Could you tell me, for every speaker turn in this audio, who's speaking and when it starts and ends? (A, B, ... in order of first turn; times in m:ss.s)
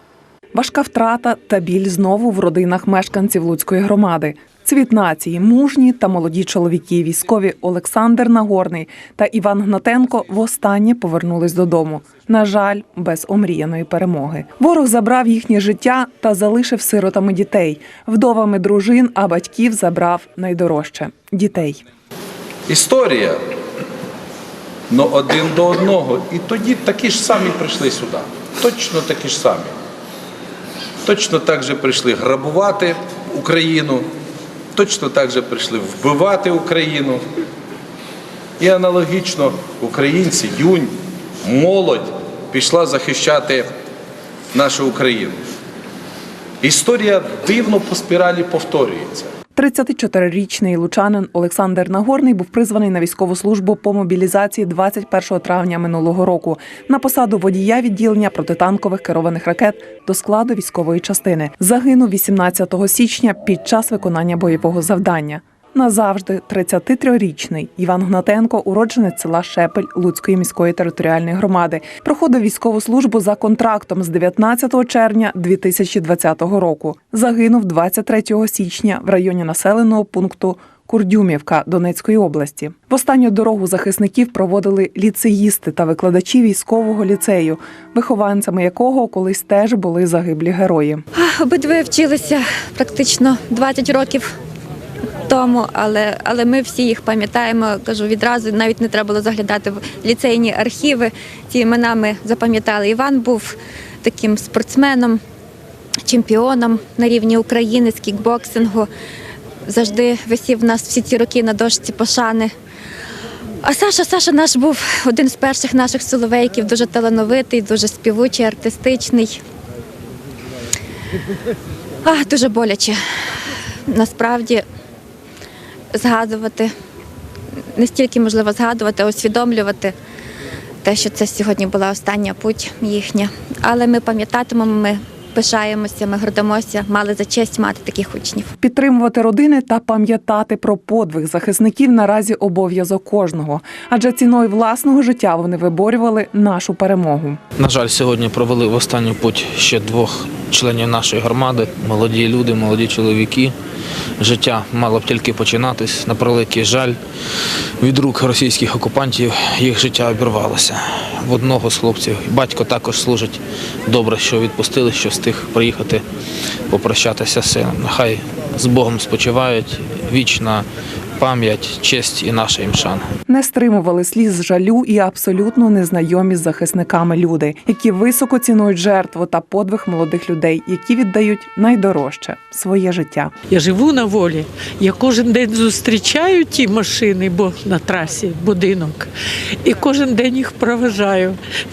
0:00.5-0:21.8 A
0:22.7-0:23.4 B
0:24.9-0:29.7 B
0:31.1-0:34.1 B
0:34.8-0:37.2 B
0:38.6-0:43.7 B
0:44.5-0:45.4 B
0:46.6-0:49.3 B
0:49.6-1:31.0 A
1:31.2-1:34.3 C
1:35.3-1:45.2 C
1:46.1-1:48.9 C
1:49.7-1:52.5 C
1:53.6-1:59.4 C
2:02.0-2:03.0 C
2:03.9-2:04.6 C
2:06.0-2:06.7 C
2:07.8-2:09.9 C
2:10.8-2:18.5 C
2:18.6-2:27.4 A
2:27.6-2:33.5 D
2:34.2-2:37.0 D
2:37.8-2:46.0 D
2:46.7-2:50.7 D
2:51.2-2:53.0 D
2:53.3-3:03.3 A
3:03.5-3:09.1 E
3:09.6-3:11.4 E